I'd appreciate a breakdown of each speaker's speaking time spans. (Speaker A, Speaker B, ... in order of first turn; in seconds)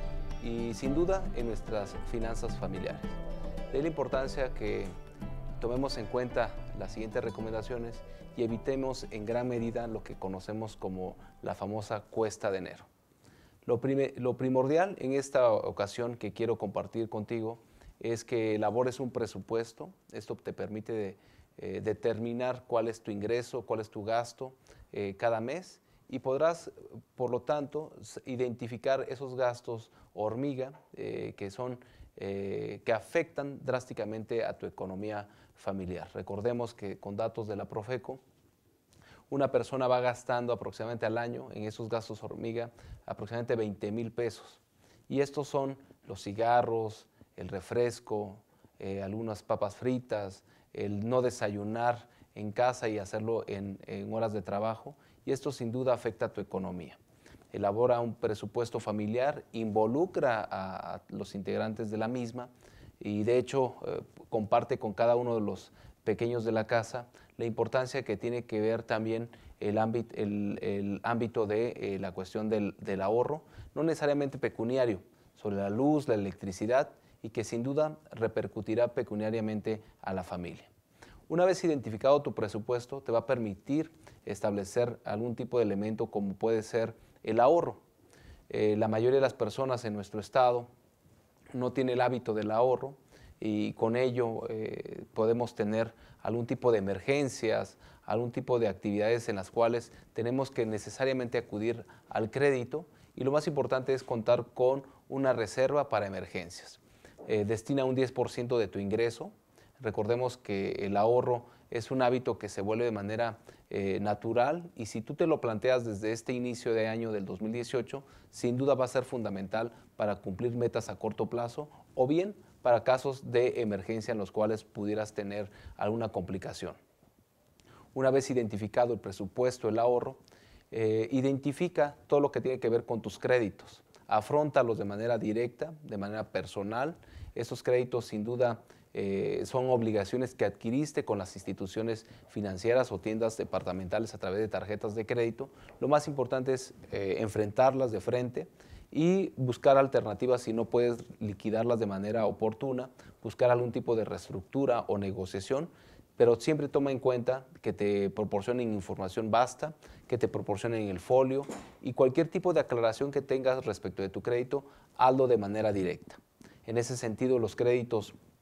Speaker A: 0.4-3.2, 3.7-4.9, 5.6-12.9, 13.6-38.2, 39.3-57.0, 57.5-80.7, 81.3-87.8, 88.5-90.7, 91.5-126.8, 127.9-130.2, 130.7-168.2